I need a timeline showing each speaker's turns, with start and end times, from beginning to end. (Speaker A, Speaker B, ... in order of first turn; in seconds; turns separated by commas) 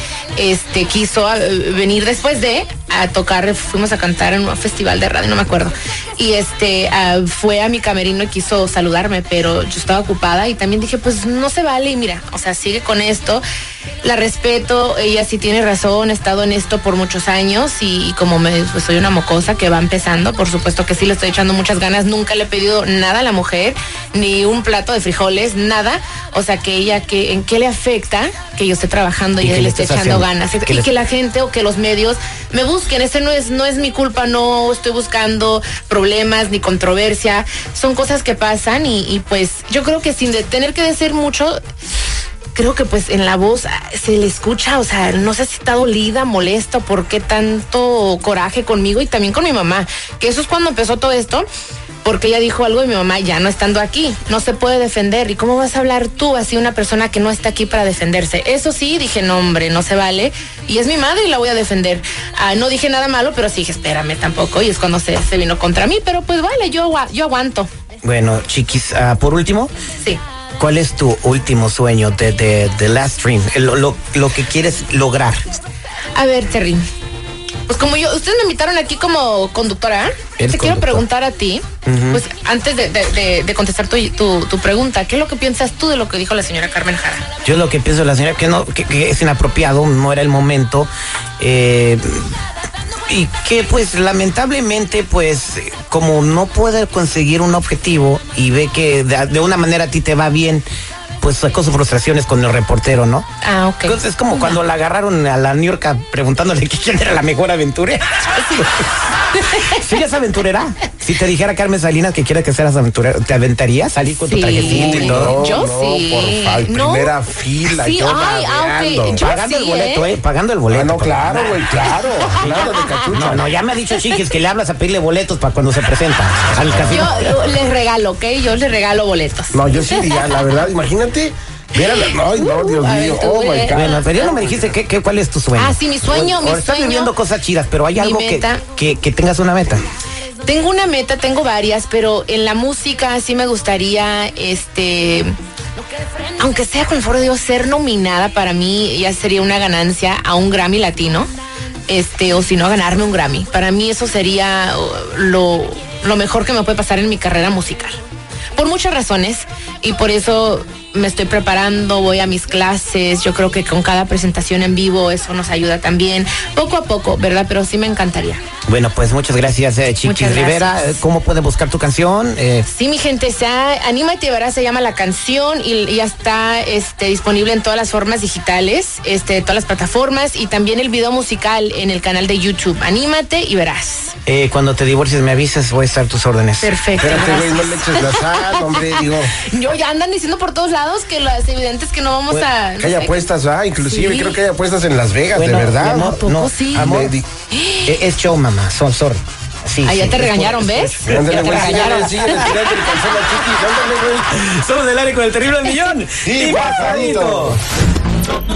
Speaker A: 0.4-13.4, Speaker A: 14.0-41.6, Speaker B: 29.4-30.9, Speaker A: 42.5-51.5, Speaker A: 52.0-67.7, Speaker B: 68.0-69.7, Speaker B: 70.6-75.4, Speaker A: 76.2-76.8, Speaker A: 77.7-87.3, Speaker B: 80.4-81.0, Speaker B: 81.9-82.2, Speaker B: 87.4-92.3, Speaker B: 93.1-100.7, Speaker B: 101.2-103.3, Speaker A: 103.4-104.6, Speaker B: 103.8-108.7, Speaker A: 108.4-108.7, Speaker A: 109.3-109.8, Speaker B: 109.7-115.5, Speaker A: 114.2-117.2, Speaker C: 114.6-119.2, Speaker A: 117.7-120.1, Speaker B: 119.2-121.6, Speaker C: 120.7-123.5, Speaker A: 122.0-123.1, Speaker B: 122.4-127.4, Speaker A: 123.7-124.2, Speaker A: 126.8-130.4, Speaker C: 129.5-133.9, Speaker A: 131.9-134.4, Speaker B: 133.7-139.8, Speaker A: 135.6-137.1, Speaker A: 137.9-138.6, Speaker A: 140.4-145.3, Speaker A: 146.4-151.3, Speaker A: 151.9-158.0, Speaker A: 158.6-168.4, Speaker B: 168.7-172.7, Speaker A: 170.0-171.0, Speaker A: 172.7-184.2, Speaker B: 184.3-186.7, Speaker A: 186.6-193.2, Speaker C: 187.0-189.3, Speaker C: 192.8-196.0, Speaker A: 193.8-194.4, Speaker B: 195.3-197.2, Speaker A: 195.8-198.0, Speaker C: 196.8-197.2, Speaker B: 197.9-202.7, Speaker A: 199.8-202.6, Speaker C: 201.1-204.1, Speaker B: 204.0-207.6, Speaker C: 206.2-207.6